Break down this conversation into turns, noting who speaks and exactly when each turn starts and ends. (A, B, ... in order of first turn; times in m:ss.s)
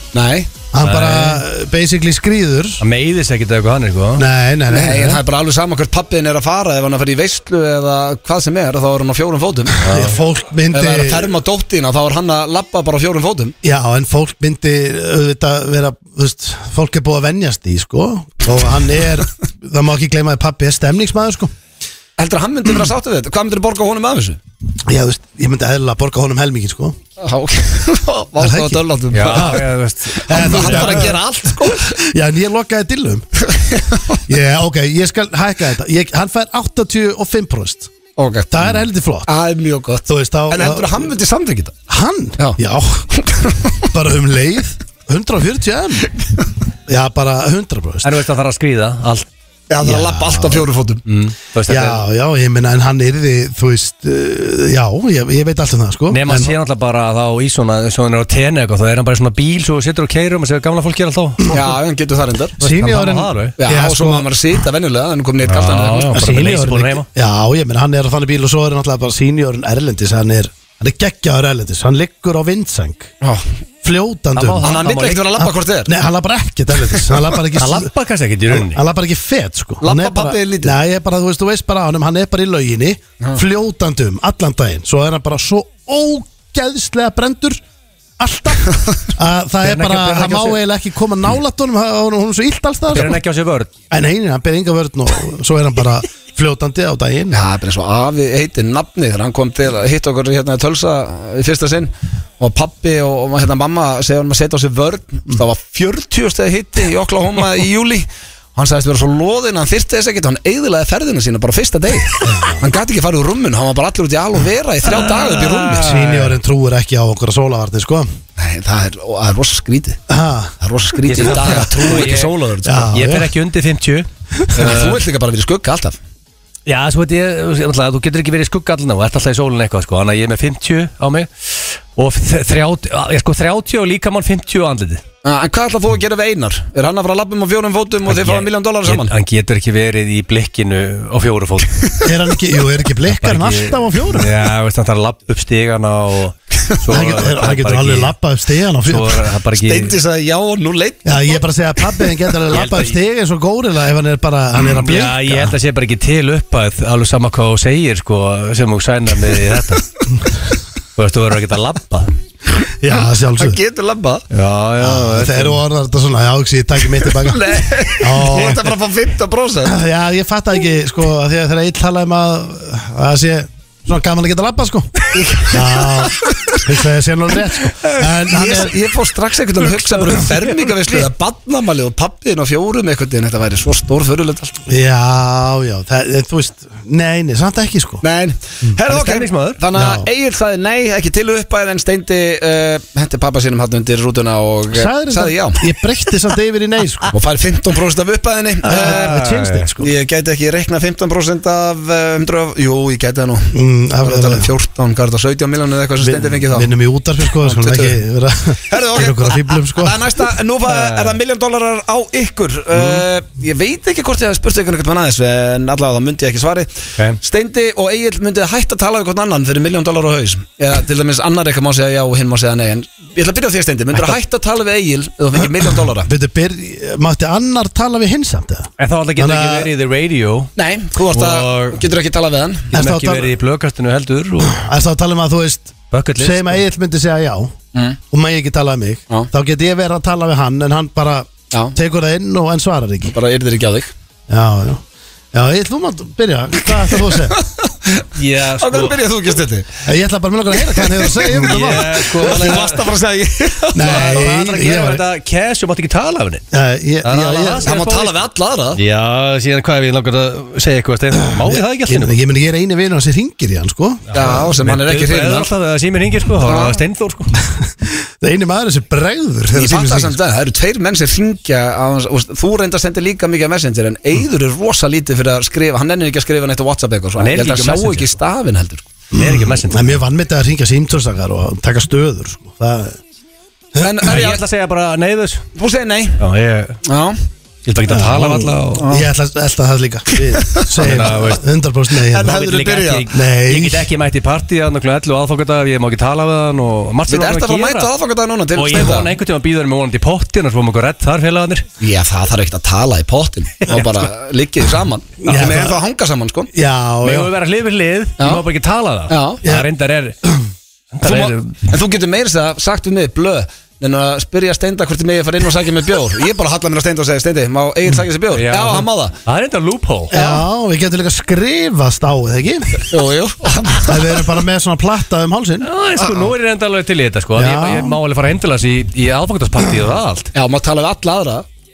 0:00.1-0:00.5 A
0:00.7-0:02.8 B
0:00.8-0:01.4 C
0:02.8-0:04.3 C
0:04.2-0:05.2 B
0:04.7-0:09.8 A
0:09.8-0:10.2 C
0:09.9-0:11.3 B
0:10.7-0:13.5 A
0:13.6-0:21.5 B
0:22.2-0:24.4 A
0:24.8-0:27.0 B
0:27.2-0:32.0 A
0:28.4-0:29.6 B
0:29.1-0:31.1 C
0:30.2-0:33.2 B
0:33.4-0:34.2 A
0:34.3-0:37.9 B
0:38.2-0:41.7 A
0:38.5-0:39.3 B
0:40.1-0:41.1 B
0:41.9-0:43.1 B
0:43.1-0:43.8 A
0:43.9-0:46.1 B
0:46.8-0:48.2 B
0:48.0-0:49.2 C
0:49.7-0:51.0 A
0:49.8-0:50.7 B
0:51.1-0:52.0 C
0:51.7-0:56.5 B
0:56.1-1:01.6 C
1:01.5-1:02.6 A
1:02.6-1:03.5 C
1:02.6-1:04.3 B
1:03.6-1:06.4 A
1:05.4-1:07.1 C
1:06.1-1:13.1 B
1:13.8-1:14.6 B
1:14.3-1:15.3 C
1:14.6-1:15.9 A
1:15.4-1:17.9 B
1:17.6-1:18.8 C
1:18.5-1:27.6 B
1:19.8-1:20.8 A
1:28.2-1:33.2 B
1:29.6-1:30.6 C
1:32.9-1:33.7 C
1:33.9-1:37.4 B
1:37.3-1:55.9 A
1:52.2-1:52.6 B
1:54.8-1:56.4 C
1:55.8-1:58.1 B
1:58.4-2:00.0 A
2:00.1-2:00.5 B
2:00.6-2:02.9 A
2:01.0-2:02.3 C
2:02.6-2:03.3 B
2:02.9-2:05.0 C
2:04.5-2:06.0 A
2:06.6-2:15.0 C
2:15.2-2:19.1 A
2:18.1-2:21.8 C
2:22.0-2:24.4 B
2:23.1-2:28.1 C
2:26.9-2:29.2 B
2:28.8-2:30.0 C
2:29.5-2:31.4 A
2:31.0-2:35.6 B
2:32.5-2:33.0 C
2:34.8-2:39.9 C
2:41.0-2:42.1 C
2:42.8-2:43.6 B
2:43.3-2:44.2 A
2:44.3-2:45.6 C
2:44.8-2:47.4 B
2:47.1-2:49.8 A
2:48.0-2:48.7 B
2:49.6-2:58.8 B
2:55.1-2:56.6 A
2:58.2-3:04.6 A
3:04.7-3:08.0 B
3:08.0-3:15.6 A
3:08.9-3:09.6 C
3:09.7-3:10.1 B
3:14.7-3:17.1 B
3:17.1-3:19.2 A
3:18.6-3:19.7 C
3:18.7-3:19.9 B
3:19.8-3:26.7 A
3:23.5-3:24.5 B
3:26.0-3:30.0 B
3:27.4-3:28.0 A
3:28.7-3:46.1 A
3:30.6-3:31.2 C
3:32.7-3:33.0 C
3:46.0-3:49.7 B
3:48.8-3:50.5 C
3:50.6-3:52.7 A
3:51.1-3:51.8 C
3:52.7-3:53.3 B
3:52.7-3:54.5 C
3:54.4-3:57.5 B
3:55.9-3:56.6 C
3:58.1-4:03.1 B
4:03.1-4:03.9 A
4:04.3-4:07.4 B
4:06.9-4:08.1 A
4:08.1-4:09.0 C
4:08.6-4:09.8 A
4:09.8-4:12.3 B
4:10.6-4:11.2 A
4:11.2-4:12.9 C
4:12.2-4:14.3 A
4:13.7-4:15.0 B
4:13.8-4:16.4 C
4:16.5-4:17.7 B
4:17.0-4:18.2 C
4:17.6-4:18.8 A
4:18.8-4:22.1 C
4:21.3-4:24.4 B
4:24.1-4:27.4 C
4:24.1-4:25.5 A
4:26.4-4:26.8 A
4:27.6-4:30.2 B
4:29.5-4:38.9 A
4:37.2-4:38.1 C
4:39.1-4:43.0 B
4:39.1-4:40.0 C
4:43.8-4:44.4 A
4:44.0-4:45.4 C
4:45.6-4:46.2 A
4:46.2-4:46.8 C
4:46.8-4:47.2 A
4:47.6-4:49.0 C
4:47.9-4:52.4 B
4:50.5-4:51.0 A
4:50.8-4:51.4 C
4:52.1-4:53.0 A
4:52.2-4:57.9 C
4:53.1-4:53.9 B
4:57.1-4:59.1 A
4:58.5-5:01.6 C
5:01.8-5:06.5 A
5:03.7-5:04.0 C
5:05.2-5:05.8 B
5:06.5-5:07.3 B
5:07.0-5:10.2 C
5:08.2-5:08.4 A
5:09.1-5:09.4 A
5:10.9-5:11.6 C
5:11.0-5:19.2 A
5:18.3-5:20.1 C
5:20.1-5:22.9 B
5:20.1-5:20.4 A
5:22.9-5:24.3 A
5:23.8-5:25.7 B
5:25.6-5:30.3 C
5:27.4-5:28.0 B
5:30.3-5:31.4 A